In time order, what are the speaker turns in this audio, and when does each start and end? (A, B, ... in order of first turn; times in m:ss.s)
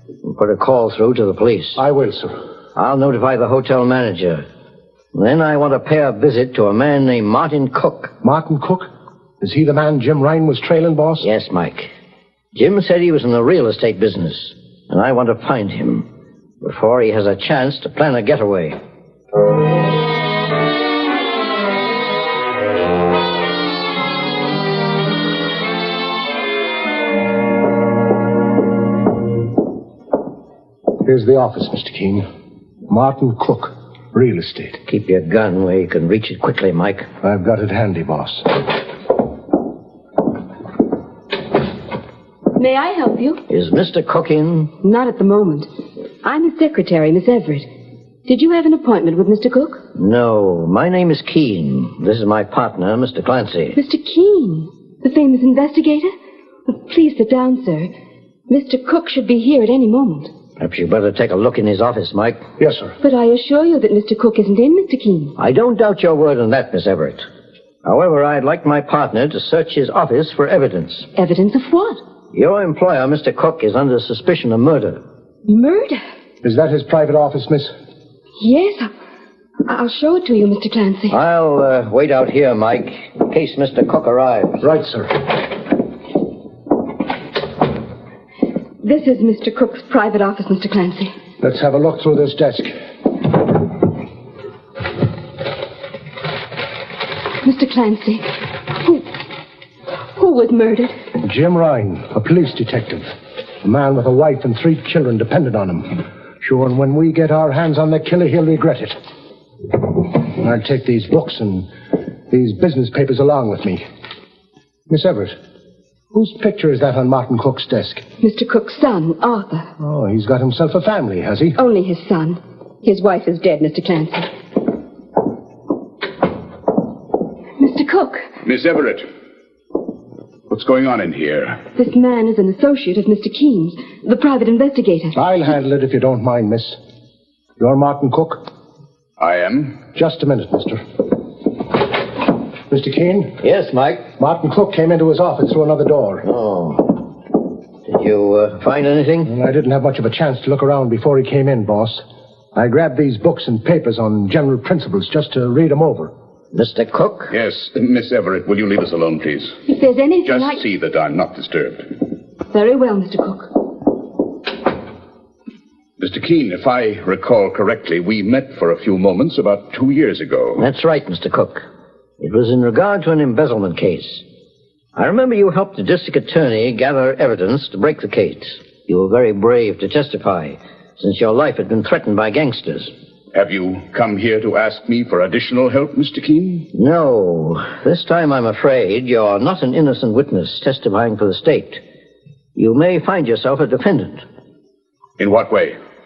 0:00.2-0:01.8 A
0:01.8-0:02.4 B
0:02.8-0:04.4 A
0:05.1-0:08.2 A
0:08.2-0:11.3 B
0:11.2-0:11.9 A
0:12.5-0:16.1 A
0:16.6-0:18.8 A
0:31.0-0:32.3 B
0:32.9-0:34.8 B
0:34.9-0:37.1 A
0:37.2-0:38.6 B
0:42.6-0:43.4 C
0:43.5-0:44.7 A
0:44.8-0:45.7 C
0:46.2-0:47.7 C
0:48.3-0:49.8 C
0:50.0-0:53.8 A
0:53.8-0:56.1 C
0:56.7-0:57.9 C
0:58.5-1:00.3 C
1:00.6-1:02.4 A
1:02.6-1:03.0 B
1:03.0-1:05.4 C
1:05.4-1:07.3 A
1:07.8-1:11.1 A
1:11.2-1:12.0 C
1:12.3-1:15.0 A
1:15.5-1:16.0 C
1:16.4-1:17.7 B
1:18.4-1:18.9 C
1:19.7-1:21.2 C
1:21.1-1:24.6 A
1:24.6-1:25.2 B
1:28.8-1:31.1 C
1:31.4-1:32.8 B
1:37.4-1:39.1 C
1:40.2-1:41.0 C
1:41.2-1:49.0 B
1:49.8-1:51.7 B
1:52.3-1:53.8 B
1:54.9-1:55.4 B
1:56.1-1:58.0 B
1:58.2-1:59.7 C
1:59.8-2:01.6 B
2:01.6-2:04.3 C
2:07.6-2:08.3 C
2:08.4-2:09.1 D
2:10.5-2:11.7 D
2:11.8-2:15.2 C
2:15.1-2:16.8 B
2:17.6-2:18.4 B
2:19.2-2:19.9 D
2:20.0-2:20.8 B
2:22.7-2:23.4 B
2:23.4-2:24.1 A
2:24.2-2:26.3 B
2:26.2-2:27.1 A
2:27.9-2:29.3 A
2:29.3-2:32.0 B
2:32.6-2:36.1 B
2:36.5-2:37.3 A
2:37.3-2:39.6 D
2:39.7-2:40.6 C
2:40.2-2:41.9 D
2:42.5-2:43.7 C
2:46.0-2:50.6 D
2:50.6-2:51.7 A
2:52.2-2:54.2 A
2:55.0-3:02.9 A
3:03.3-3:06.7 D
3:06.7-3:11.8 A
3:12.6-3:14.2 A
3:15.2-3:15.8 D